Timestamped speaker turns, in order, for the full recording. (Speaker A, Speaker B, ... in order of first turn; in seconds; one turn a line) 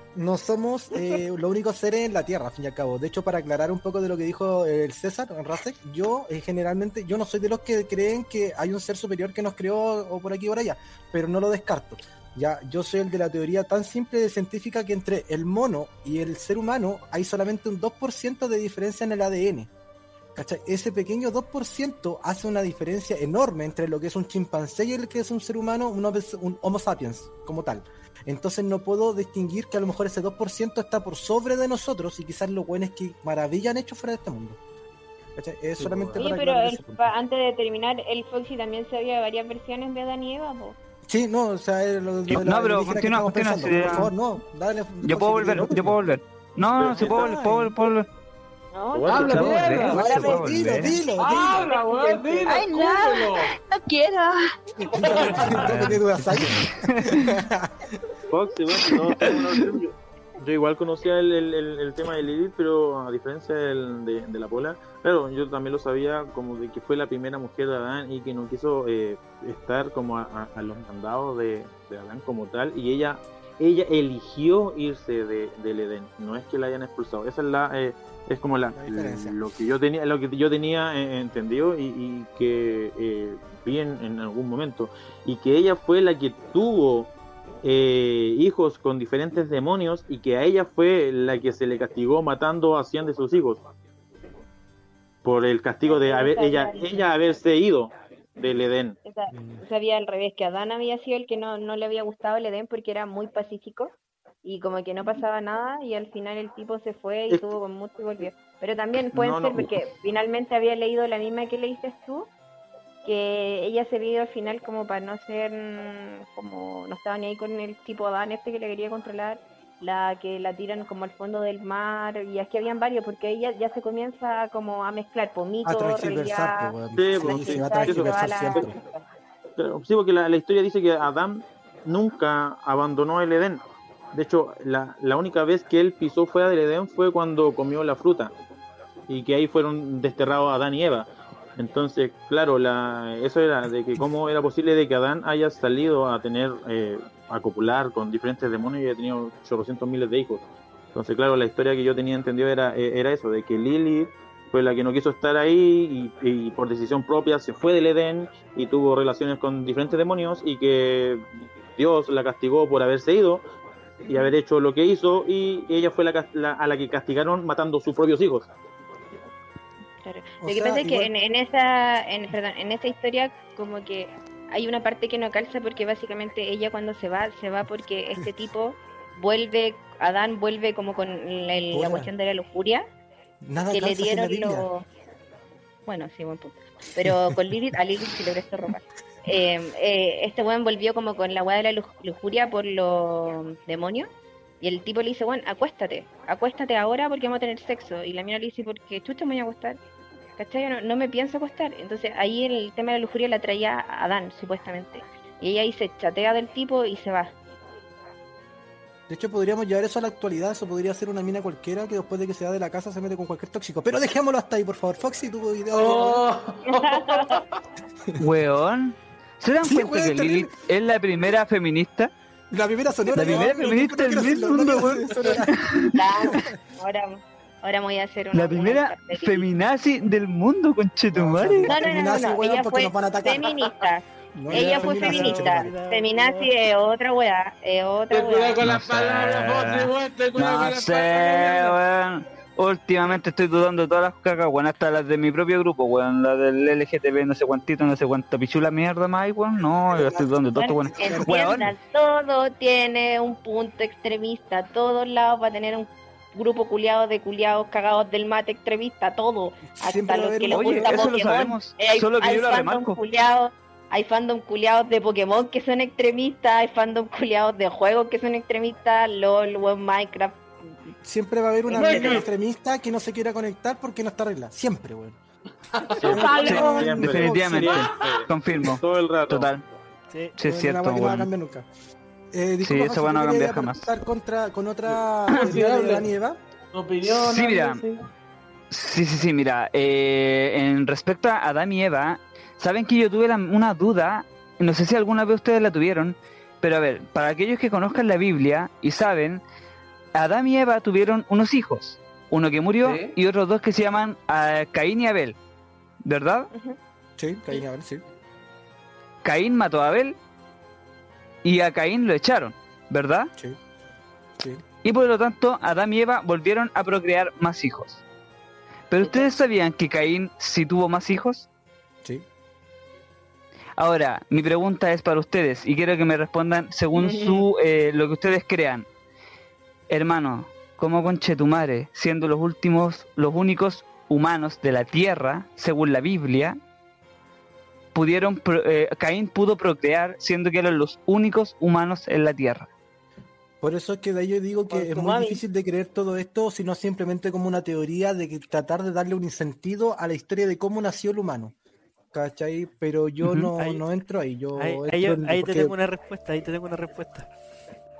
Speaker A: 0.1-19.7
Speaker B: 0.9-1.2
Speaker A: 20.3-34.6
Speaker A: 35.4-37.1
Speaker C: 35.8-36.3
Speaker B: 36.2-40.8
Speaker A: 41.1-46.0
Speaker D: 42.3-44.1
Speaker D: 45.0-48.1
Speaker C: 46.8-47.3
Speaker A: 47.0-47.8
Speaker B: 48.7-50.6
Speaker C: 48.9-49.6
Speaker E: 49.0-50.2
Speaker A: 49.3-51.7
Speaker D: 49.4-51.0
Speaker E: 51.2-53.5
Speaker B: 51.2-55.9
Speaker A: 54.9-58.0
Speaker D: 55.6-57.3
Speaker C: 58.3-87.1
Speaker D: 58.7-59.8
Speaker A: 78.7-79.4
Speaker C: 87.6-93.6
Speaker C: 95.2-99.0
Speaker B: 95.8-97.1
Speaker B: 99.0-112.3
Speaker A: 99.3-99.6
Speaker C: 107.3-107.5
Speaker C: 109.1-109.7
Speaker B: 113.0-129.1
Speaker A: 125.6-128.7
Speaker C: 126.9-128.7
Speaker C: 129.6-138.3
Speaker C: 139.1-161.2
Speaker C: 161.8-163.4
Speaker C: 164.0-168.5
Speaker B: 164.1-164.3
Speaker B: 170.0-182.8
Speaker A: 170.4-171.1
Speaker A: 181.7-182.1
Speaker A: 183.4-184.7
Speaker B: 183.7-184.8
Speaker B: 185.8-194.1
Speaker A: 187.0-187.4
Speaker B: 194.6-199.8
Speaker B: 200.4-207.3
Speaker A: 209.1-216.2
Speaker E: 215.7-217.6
Speaker B: 216.7-217.4
Speaker D: 218.2-222.1
Speaker A: 219.6-220.5
Speaker A: 222.5-225.7
Speaker D: 223.1-226.0
Speaker B: 225.9-229.5
Speaker D: 228.3-231.7
Speaker A: 231.1-233.7
Speaker B: 231.7-238.6
Speaker A: 234.3-235.7
Speaker F: 234.5-236.5
Speaker E: 238.1-241.8
Speaker D: 238.6-251.7
Speaker A: 249.9-250.3
Speaker B: 250.5-270.9
Speaker A: 250.8-251.3
Speaker A: 259.7-261.1
Speaker D: 260.5-263.0
Speaker A: 271.0-275.2
Speaker B: 271.7-272.2
Speaker E: 271.7-272.3
Speaker E: 275.8-276.8
Speaker B: 276.0-276.9
Speaker A: 276.0-277.8
Speaker D: 276.1-279.6
Speaker C: 276.5-279.6
Speaker D: 280.4-281.3
Speaker A: 280.4-281.7
Speaker A: 282.3-286.4
Speaker D: 282.6-283.9
Speaker D: 285.3-285.5
Speaker E: 285.4-286.1
Speaker E: 286.7-288.1
Speaker D: 287.1-287.8
Speaker D: 288.7-299.4
Speaker D: 300.1-305.4
Speaker E: 302.8-303.1
Speaker D: 306.0-306.5
Speaker B: 306.5-306.8
Speaker A: 307.2-308.0
Speaker D: 309.2-310.2
Speaker D: 311.4-313.3
Speaker A: 314.4-314.6
Speaker D: 314.8-318.0
Speaker D: 318.9-321.5
Speaker B: 319.0-319.3
Speaker D: 323.8-328.9
Speaker B: 326.9-327.5
Speaker D: 329.9-336.6
Speaker D: 337.9-342.7
Speaker A: 343.6-351.5
Speaker B: 344.7-345.4
Speaker A: 352.1-355.7
Speaker D: 353.2-353.5
Speaker F: 353.6-353.8
Speaker F: 354.6-357.3